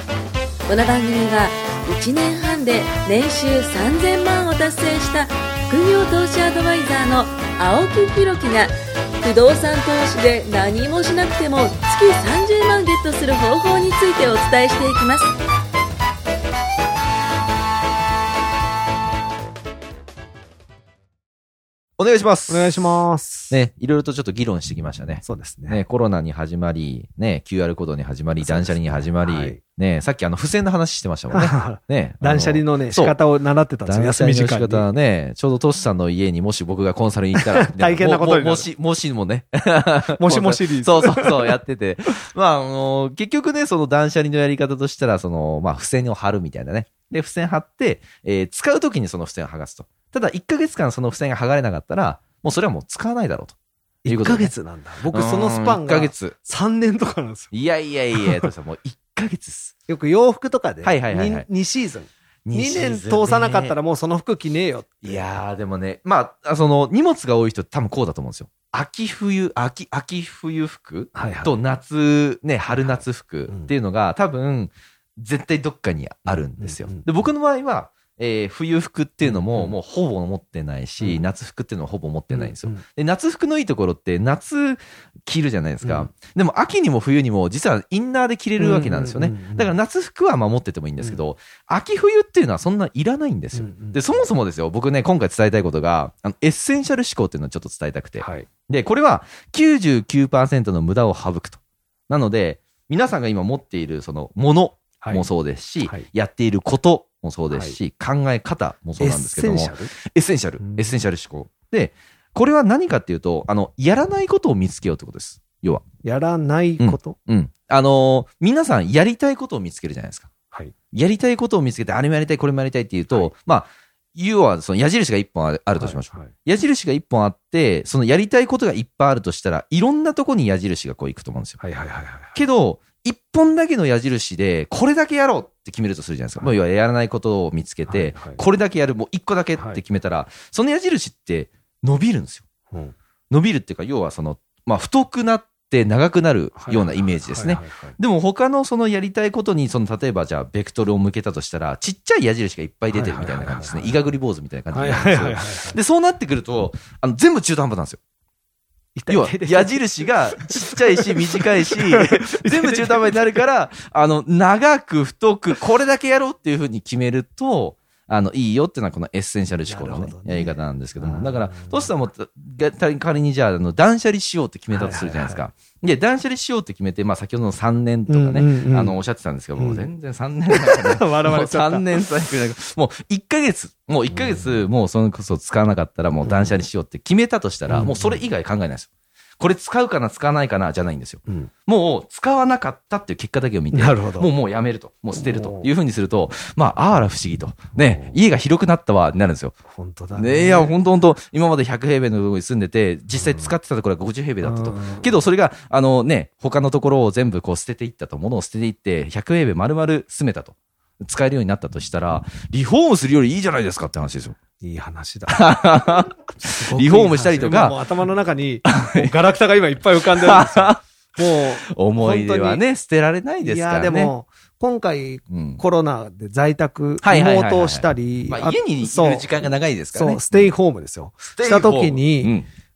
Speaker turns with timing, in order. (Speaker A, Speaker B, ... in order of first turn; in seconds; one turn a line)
Speaker A: 0.7-15.3
Speaker B: 22.0-22.8
Speaker C: 22.5-23.5
Speaker B: 23.5-33.1
Speaker C: 25.2-25.8
Speaker C: 28.4-29.6
Speaker C: 31.3-34.9
Speaker B: 33.9-53.5
Speaker C: 37.4-38.7
Speaker C: 40.2-41.5
Speaker C: 54.0-57.5
Speaker B: 54.0-54.5
Speaker B: 55.1-56.4
Speaker B: 57.5-59.7
Speaker C: 58.2-58.5
Speaker C: 59.9-65.3
Speaker B: 60.8-61.5
Speaker B: 62.5-63.8
Speaker B: 65.0-115.8
Speaker C: 71.1-71.5
Speaker C: 72.7-73.7
Speaker C: 76.6-77.0
Speaker C: 79.2-79.7
Speaker C: 82.3-82.8
Speaker C: 85.8-86.1
Speaker C: 88.6-89.7
Speaker C: 93.5-94.0
Speaker C: 98.2-98.5
Speaker C: 105.0-105.2
Speaker C: 107.5-107.8
Speaker C: 109.0-109.9
Speaker C: 110.6-110.9
Speaker C: 116.0-117.2
Speaker B: 116.8-120.3
Speaker B: 120.9-131.6
Speaker C: 125.8-126.3
Speaker C: 131.6-132.4
Speaker B: 132.3-142.4
Speaker C: 137.9-138.4
Speaker B: 143.3-158.0
Speaker C: 146.6-147.9
Speaker C: 152.9-154.0
Speaker C: 154.7-155.8
Speaker C: 158.9-163.2
Speaker B: 159.1-199.5
Speaker C: 169.7-171.9
Speaker C: 174.7-175.4
Speaker C: 178.1-179.0
Speaker C: 179.6-179.9
Speaker C: 180.5-182.0
Speaker C: 184.1-184.5
Speaker C: 186.2-186.6
Speaker C: 187.7-188.2
Speaker C: 193.7-194.3
Speaker C: 195.1-195.7
Speaker C: 197.8-198.2
Speaker C: 199.7-200.7
Speaker B: 200.1-214.3
Speaker C: 203.1-203.5
Speaker C: 204.4-205.1
Speaker C: 214.6-215.6
Speaker B: 215.3-217.8
Speaker C: 216.4-222.6
Speaker B: 218.7-219.1
Speaker B: 220.0-220.8
Speaker B: 221.6-224.1
Speaker C: 223.4-229.3
Speaker B: 225.3-225.6
Speaker B: 227.0-230.5
Speaker C: 229.9-232.4
Speaker B: 231.4-232.5